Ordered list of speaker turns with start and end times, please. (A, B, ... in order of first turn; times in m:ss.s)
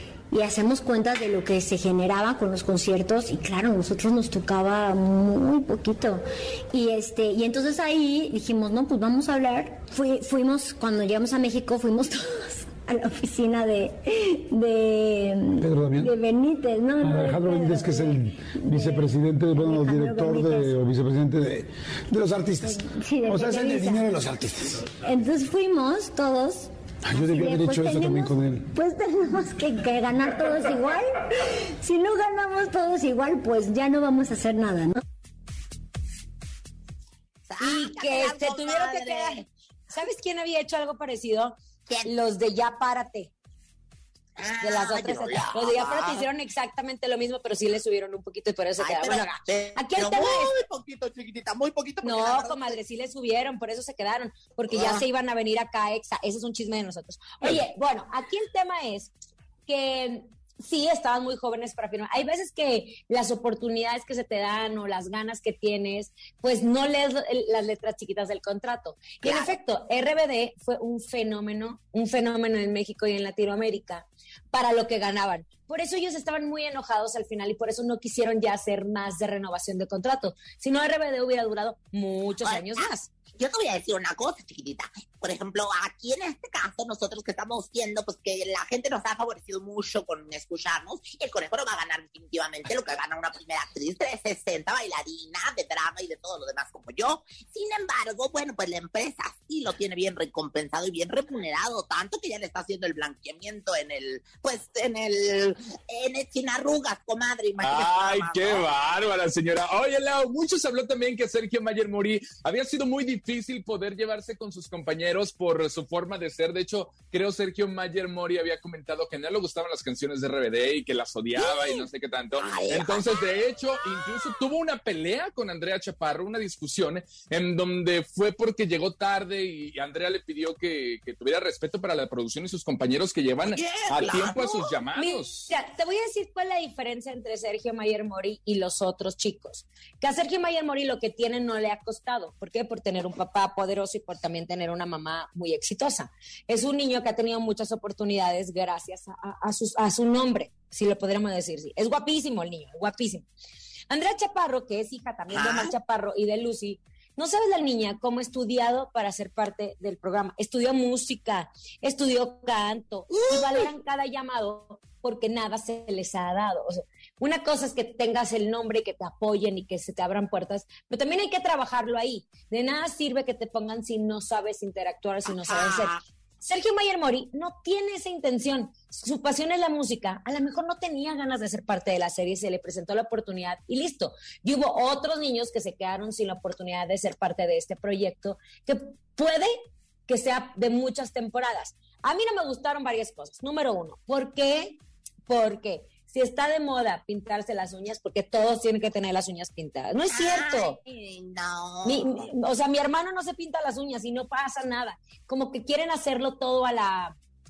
0:00.3-0:20.8 A
0:15.6-0:16.1 B
0:17.0-0:24.9 B
0:22.6-0:24.1 A
0:25.0-0:35.0 A
0:27.0-0:28.7 B
0:37.5-0:39.4 C
0:37.6-0:43.3 D
0:44.4-0:46.2 C
0:44.6-0:50.5 D
0:48.8-0:52.8 C
0:52.0-0:59.1 D
0:54.7-0:55.0 C
0:59.7-1:23.1 D
1:09.2-1:09.5 C
1:22.4-1:48.7 C
1:47.6-2:15.5 E
2:01.4-2:01.8 C
2:02.4-2:03.0 C
2:13.5-2:14.6 C
2:15.0-2:33.2 D
2:33.9-3:09.5 D
2:35.3-2:35.7 C
2:43.1-2:43.7 C
2:55.3-2:56.0 C
3:10.1-3:20.8 D
3:20.1-3:22.2 C
3:21.8-3:27.1 D